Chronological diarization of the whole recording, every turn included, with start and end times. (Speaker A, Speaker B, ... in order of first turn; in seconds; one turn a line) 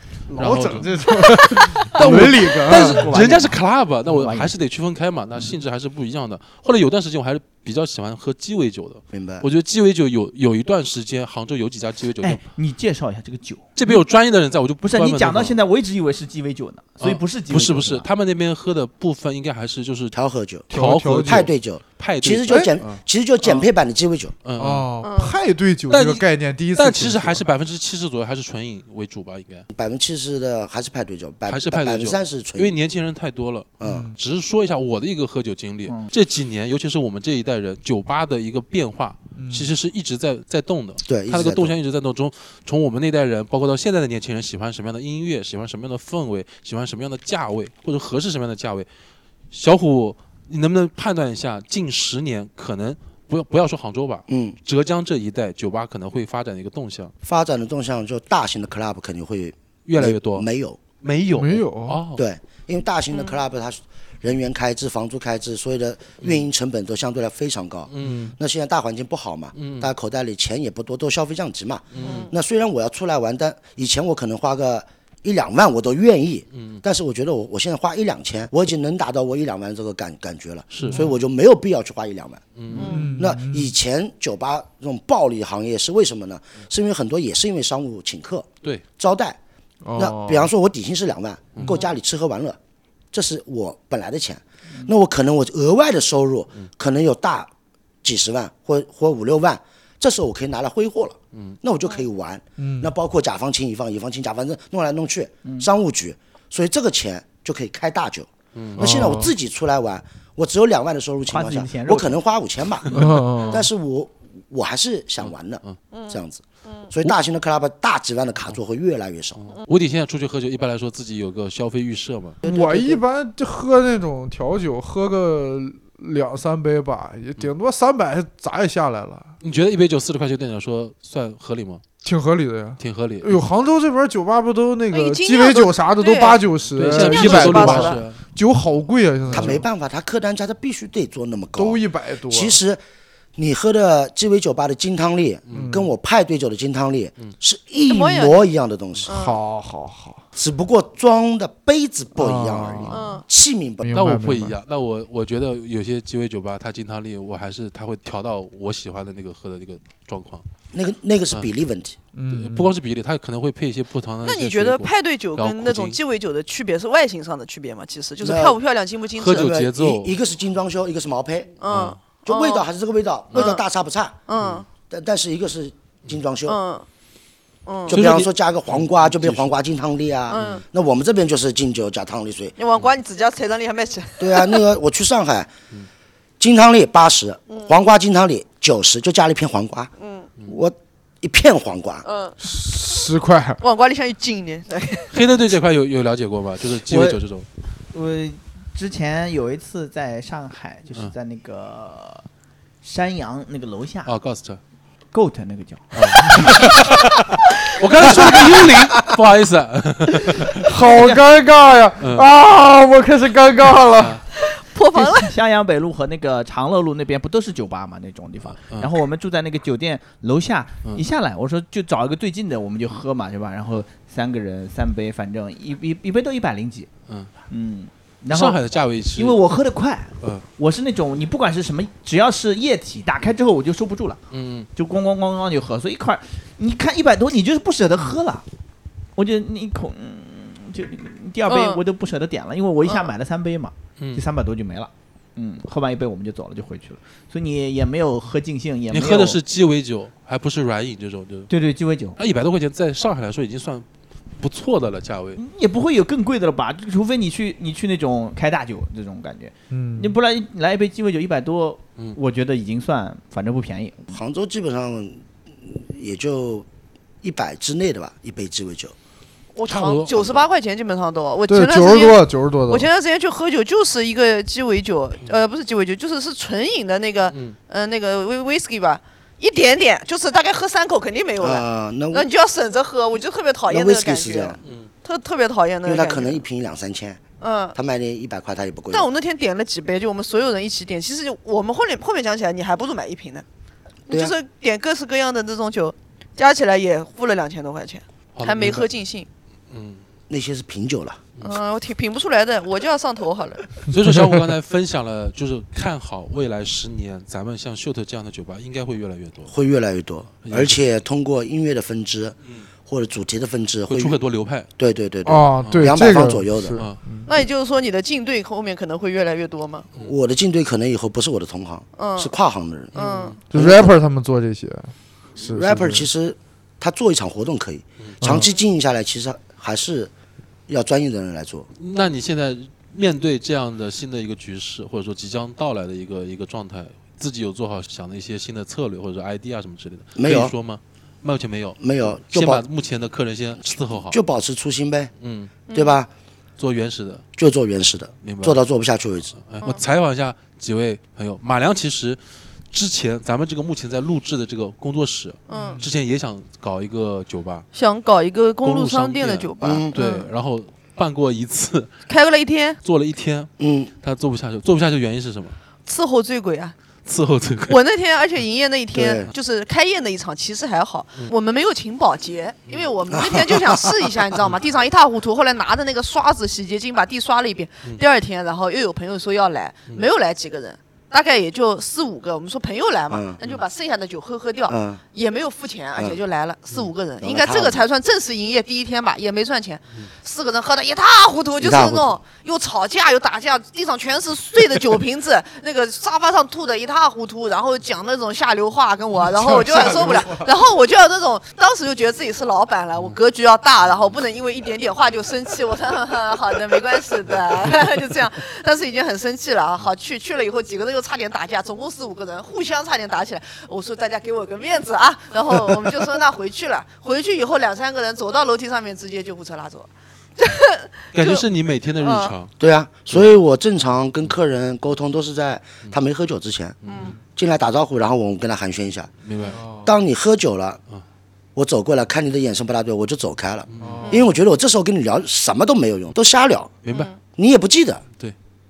Speaker A: 0.3-3.2
Speaker B: 0.3-12.4
Speaker C: 2.7-4.5
Speaker D: 9.1-9.5
Speaker C: 12.2-13.7
Speaker B: 13.8-15.6
Speaker C: 14.8-18.1
Speaker B: 17.0-20.2
Speaker D: 20.1-20.7
Speaker B: 20.7-23.0
Speaker A: 20.7-21.5
Speaker D: 21.2-24.3
Speaker A: 22.5-22.8
Speaker B: 24.4-24.9
Speaker A: 24.6-27.4
Speaker E: 25.0-25.4
Speaker B: 25.9-29.7
Speaker D: 29.7-32.8
Speaker B: 31.5-48.9
Speaker D: 33.8-34.1
Speaker A: 33.8-34.2
Speaker A: 39.4-39.7
Speaker D: 41.0-41.8
Speaker B: 49.5-57.1
Speaker D: 54.3-54.6
Speaker D: 57.2-60.8
Speaker B: 59.9-60.5
Speaker B: 61.0-62.2
Speaker A: 61.3-62.0
Speaker D: 62.2-82.4
Speaker E: 63.1-63.4
Speaker B: 67.9-68.3
Speaker B: 69.5-69.9
Speaker B: 71.9-72.3
Speaker E: 72.0-72.3
Speaker B: 76.5-76.8
Speaker B: 80.7-81.0
Speaker A: 80.9-81.1
Speaker B: 82.6-83.1
Speaker E: 82.7-83.2
Speaker A: 82.8-83.7
Speaker D: 83.1-88.5
Speaker D: 89.0-89.4
Speaker A: 89.8-90.5
Speaker D: 90.0-92.6
Speaker D: 93.1-97.5
Speaker D: 98.0-119.4
Speaker A: 102.6-102.9
Speaker B: 108.5-109.1
Speaker A: 108.8-109.3
Speaker C: 111.3-112.2
Speaker B: 112.9-113.5
Speaker A: 112.9-113.6
Speaker B: 115.2-115.8
Speaker E: 115.9-116.9
Speaker B: 119.4-122.4
Speaker D: 122.4-123.0
Speaker A: 122.4-129.3
Speaker B: 129.4-131.8
Speaker A: 132.0-139.7
Speaker B: 132.8-133.4
Speaker E: 134.9-138.1
Speaker B: 136.7-138.2
Speaker B: 139.2-139.6
Speaker D: 139.3-142.8
Speaker A: 141.6-142.6
Speaker D: 143.4-149.1
Speaker B: 145.5-145.8
Speaker A: 145.5-145.9
Speaker E: 147.9-148.5
Speaker A: 149.1-150.2
Speaker E: 149.1-149.4
Speaker D: 150.3-153.9
Speaker A: 152.2-153.2
Speaker E: 152.9-153.2
Speaker A: 153.8-154.6
Speaker B: 153.9-160.4
Speaker D: 160.7-162.0
Speaker A: 162.1-162.7
Speaker B: 162.3-166.0
Speaker E: 164.2-169.5
Speaker D: 168.2-168.6
Speaker B: 169.2-170.1
Speaker D: 169.2-171.6
Speaker E: 171.6-172.7
Speaker B: 171.6-172.0
Speaker D: 172.3-174.2
Speaker E: 173.3-173.6
Speaker E: 174.3-174.7
Speaker B: 174.4-174.6
Speaker D: 174.9-176.6
Speaker E: 176.5-176.8
Speaker E: 177.7-178.1
Speaker D: 177.9-182.6
Speaker B: 177.9-179.5
Speaker E: 180.3-180.6
Speaker B: 180.3-180.6
Speaker E: 182.6-184.6
Speaker D: 184.2-185.5
Speaker D: 186.4-189.9
Speaker E: 190.0-190.3
Speaker D: 190.5-192.1
Speaker E: 192.0-192.4
Speaker A: 192.4-193.6
Speaker E: 193.6-195.2
Speaker B: 195.1-197.5
Speaker C: 196.9-197.2
Speaker C: 197.9-202.3
Speaker C: 202.8-204.1
Speaker B: 204.1-204.6
Speaker C: 205.1-206.7
Speaker B: 205.9-210.7
Speaker A: 210.6-214.2
Speaker C: 210.7-211.2
Speaker B: 212.0-212.3
Speaker B: 214.0-214.2
Speaker E: 214.3-215.3
Speaker C: 214.9-226.9
Speaker B: 218.4-218.9
Speaker C: 227.5-228.6
Speaker B: 228.3-229.4
Speaker C: 229.2-234.2
Speaker B: 234.3-234.7
Speaker C: 234.8-238.4
Speaker C: 239.2-249.4
Speaker E: 241.5-241.8
Speaker B: 244.0-244.2
Speaker B: 248.9-251.5
Speaker C: 251.5-252.2
Speaker B: 252.2-253.9
Speaker B: 254.4-255.4
Speaker C: 255.4-264.1
Speaker A: 259.7-260.1
Speaker D: 264.1-266.7
Speaker D: 267.2-268.9
Speaker E: 269.6-286.4
Speaker B: 269.7-270.4
Speaker A: 271.5-272.9
Speaker B: 277.3-277.6
Speaker D: 281.4-282.3
Speaker D: 283.7-284.6
Speaker B: 284.6-284.9
Speaker D: 285.9-287.2
Speaker E: 287.4-287.8
Speaker D: 287.8-289.1
Speaker E: 288.9-293.4
Speaker D: 294.1-294.3
Speaker E: 294.1-299.3
Speaker B: 298.4-298.9
Speaker B: 299.7-300.0
Speaker D: 300.3-301.2
Speaker E: 301.4-303.9
Speaker B: 303.9-309.5
Speaker D: 309.5-314.2
Speaker B: 310.4-310.8
Speaker B: 313.9-314.7
Speaker D: 314.8-316.8
Speaker A: 315.3-317.3
Speaker B: 315.6-316.0
Speaker E: 317.3-319.9
Speaker D: 320.0-323.0
Speaker E: 322.0-322.3
Speaker B: 322.9-323.4
Speaker E: 322.9-323.4
Speaker D: 323.5-324.0
Speaker A: 323.5-326.1
Speaker D: 325.5-330.1
Speaker A: 328.2-328.5
Speaker D: 330.7-331.7
Speaker B: 331.8-344.2
Speaker D: 340.2-340.5
Speaker D: 341.8-342.6
Speaker D: 344.0-345.1
Speaker B: 345.2-345.6
Speaker E: 345.7-346.0
Speaker D: 345.7-346.1
Speaker B: 346.6-347.2
Speaker D: 347.4-349.4
Speaker B: 348.2-348.6
Speaker B: 349.4-352.2
Speaker B: 352.7-357.7
Speaker E: 355.5-355.8
Speaker A: 355.5-355.9
Speaker E: 357.7-360.3
Speaker B: 358.6-362.0
Speaker D: 359.6-359.9
Speaker E: 362.1-362.8
Speaker B: 362.8-365.6
Speaker D: 363.6-363.9
Speaker E: 365.9-366.8
Speaker B: 367.1-367.8
Speaker E: 367.7-421.4
Speaker D: 368.9-369.3
Speaker D: 373.1-373.9
Speaker D: 383.1-383.4
Speaker D: 384.7-385.0
Speaker D: 387.2-387.8
Speaker D: 391.6-392.1
Speaker A: 399.2-400.5
Speaker B: 421.1-422.5
Speaker E: 422.0-422.3
Speaker D: 422.6-426.8
Speaker B: 423.1-423.4
Speaker B: 426.8-427.1
Speaker E: 426.9-427.1
Speaker D: 427.4-429.1
Speaker B: 429.2-429.6
Speaker A: 429.5-429.9
Speaker D: 429.8-430.8
Speaker D: 431.6-436.7
Speaker B: 433.7-434.2
Speaker A: 433.8-434.2
Speaker B: 436.8-437.1
Speaker E: 436.9-437.2
Speaker D: 437.4-438.0